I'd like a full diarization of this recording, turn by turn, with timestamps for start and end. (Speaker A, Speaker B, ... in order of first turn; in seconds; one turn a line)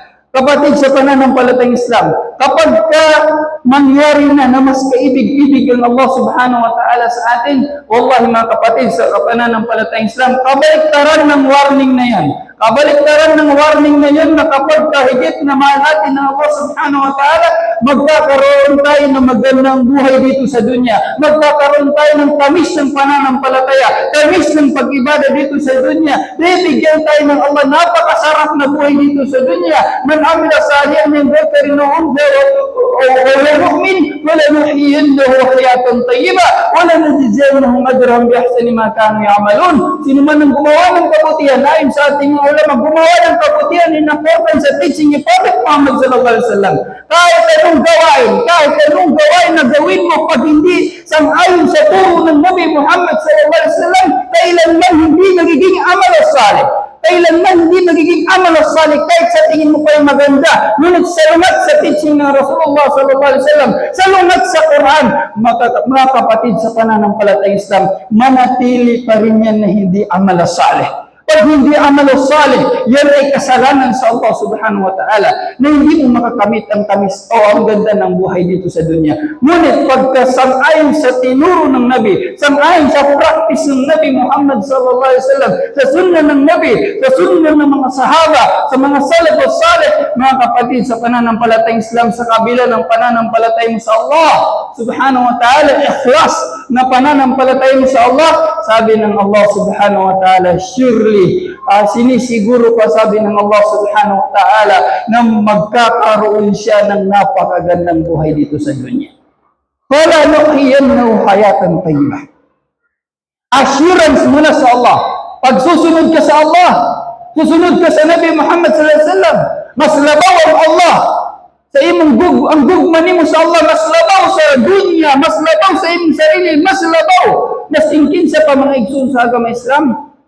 Speaker A: 0.3-109.1
Speaker A: 109.9-112.3
Speaker A: 113.5-129.9